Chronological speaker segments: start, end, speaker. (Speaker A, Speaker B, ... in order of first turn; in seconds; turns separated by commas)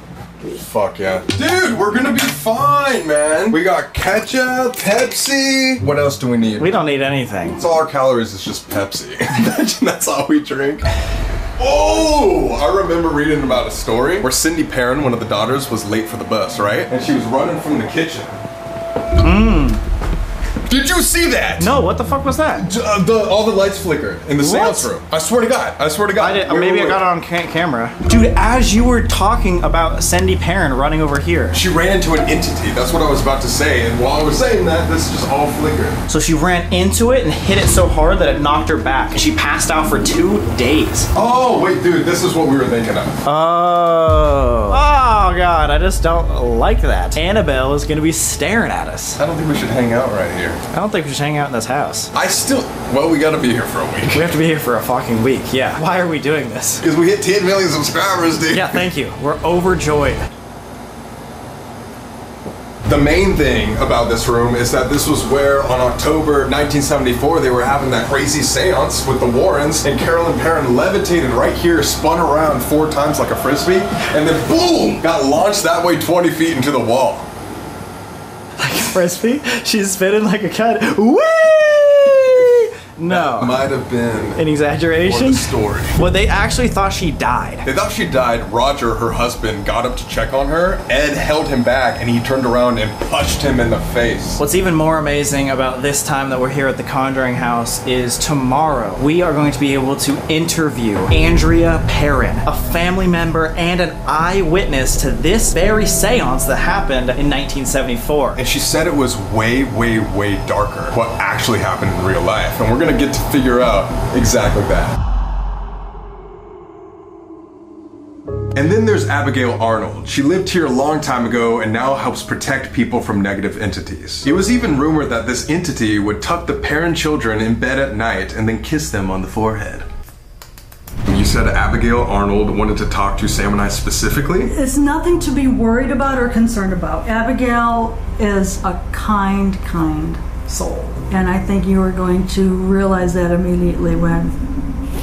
Speaker A: 0.4-6.7, Speaker B: 6.6-7.6, Speaker A: 7.5-10.8, Speaker A: 11.6-18.3, Speaker B: 19.2-19.8, Speaker A: 20.7-21.7, Speaker B: 21.6-22.7, Speaker A: 22.6-27.0, Speaker B: 24.4-24.9, Speaker B: 26.1-31.6, Speaker A: 31.5-36.0, Speaker B: 36.1-41.1, Speaker A: 41.1-43.2, Speaker B: 43.2-49.2, Speaker A: 49.2-50.6, Speaker B: 50.7-52.1, Speaker A: 52.1-54.3, Speaker B: 54.1-56.9, Speaker A: 56.8-58.9, Speaker B: 58.5-60.3, Speaker A: 62.8-77.3, Speaker B: 78.6-83.7, Speaker A: 83.0-84.5, Speaker B: 84.4-87.7, Speaker A: 85.0-86.0, Speaker A: 87.6-94.4, Speaker B: 94.4-108.4, Speaker A: 108.3-115.0, Speaker A: 118.5-129.9, Speaker A: 131.1-134.5, Speaker C: 134.5-144.3